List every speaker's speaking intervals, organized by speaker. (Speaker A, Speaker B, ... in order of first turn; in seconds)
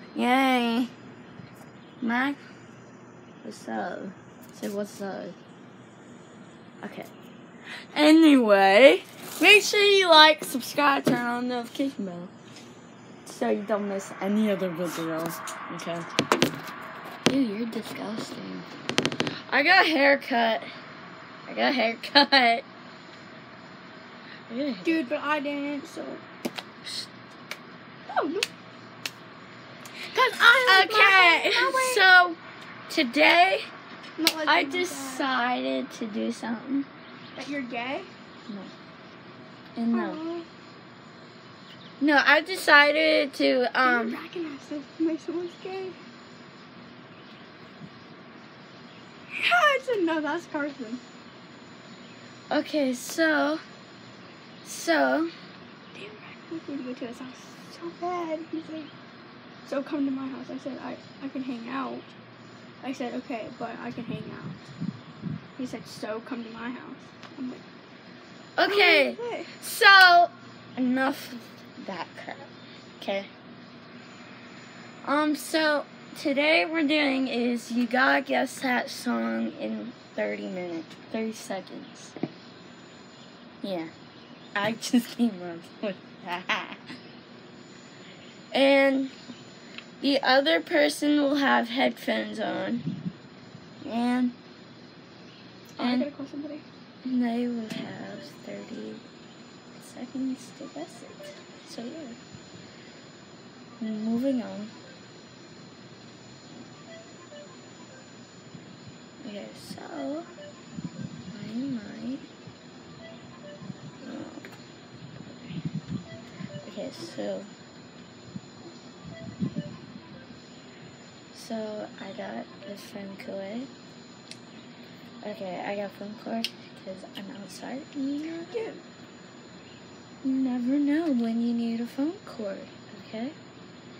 Speaker A: 0.1-0.9, 2.0-2.4, 3.4-5.3, 6.8-7.1, 7.9-12.3, 13.2-16.1, 17.3-18.7, 19.5-20.7, 21.5-22.6, 24.5-25.0, 30.7-33.7, 34.5-36.9, 39.8-40.2, 42.0-44.2, 52.5-53.6, 54.6-55.3, 68.5-72.5, 73.0-73.3, 75.0-82.1, 83.6-83.9, 84.5-86.9, 88.5-89.1, 90.0-92.8, 93.8-94.3, 95.8-96.1, 97.0-99.0, 99.8-102.2, 103.8-104.7, 109.2-110.3, 111.3-112.2, 114.0-114.5, 115.2-115.6, 116.6-117.5, 121.3-123.7, 125.2-128.7, 130.2-133.3
Speaker B: 24.8-26.2, 28.1-28.5, 30.1-32.0, 34.2-35.3, 37.4-38.1, 39.9-40.5, 43.8-46.0, 49.3-51.0, 55.9-58.9, 59.6-62.1, 62.8-64.6, 65.6-67.6, 68.6-69.5, 95.8-96.6, 128.5-128.8